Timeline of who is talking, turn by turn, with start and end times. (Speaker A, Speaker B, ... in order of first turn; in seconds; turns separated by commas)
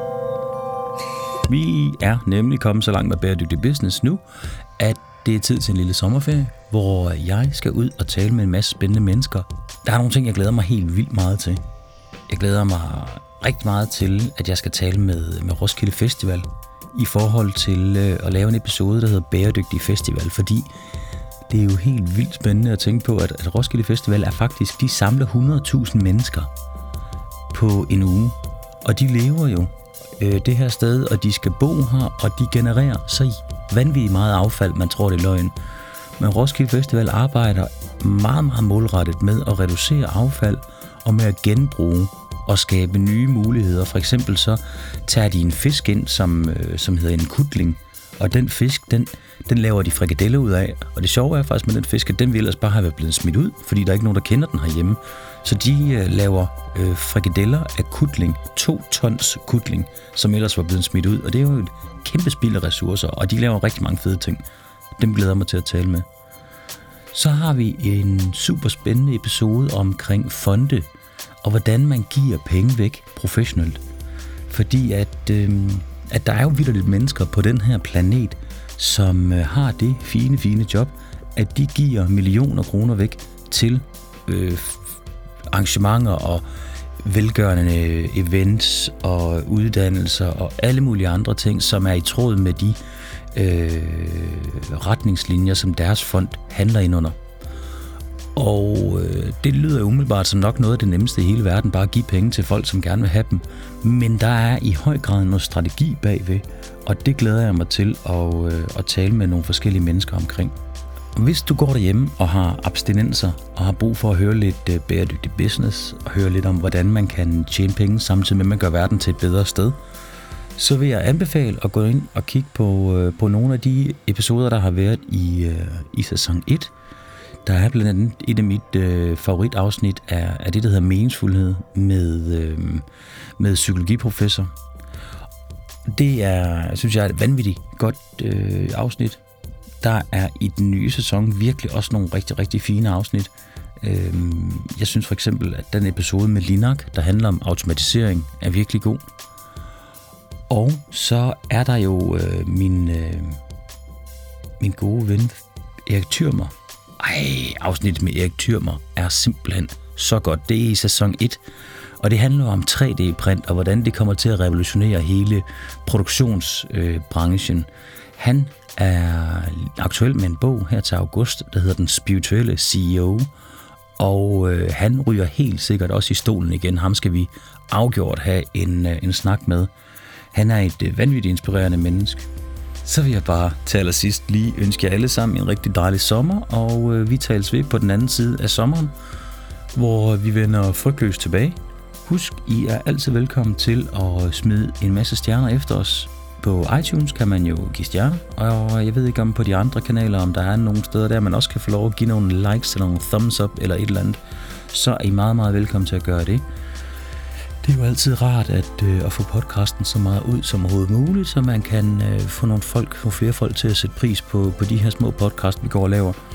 Speaker A: 1.4-4.2, Speaker A: 4.8-11.6, Speaker A: 12.3-20.7, Speaker A: 21.5-26.5, Speaker A: 27.5-35.5, Speaker A: 36.2-64.4, Speaker A: 65.0-66.1, Speaker A: 67.1-70.9, Speaker A: 71.4-73.8, Speaker A: 74.5-85.0, Speaker A: 85.5-86.5, Speaker A: 87.0-92.8, Speaker A: 93.3-97.2, Speaker A: 98.4-110.5, Speaker A: 111.2-119.8, Speaker A: 120.6-126.7, Speaker A: 127.5-132.9, Speaker A: 133.4-134.5, Speaker A: 135.9-139.2, Speaker A: 139.8-149.0, Speaker A: 150.5-153.4, Speaker A: 154.6-161.4, Speaker A: 162.0-173.3, Speaker A: 174.0-179.7, Speaker A: 180.3-182.3, Speaker A: 182.8-188.9, Speaker A: 189.7-206.4, Speaker A: 207.6-216.2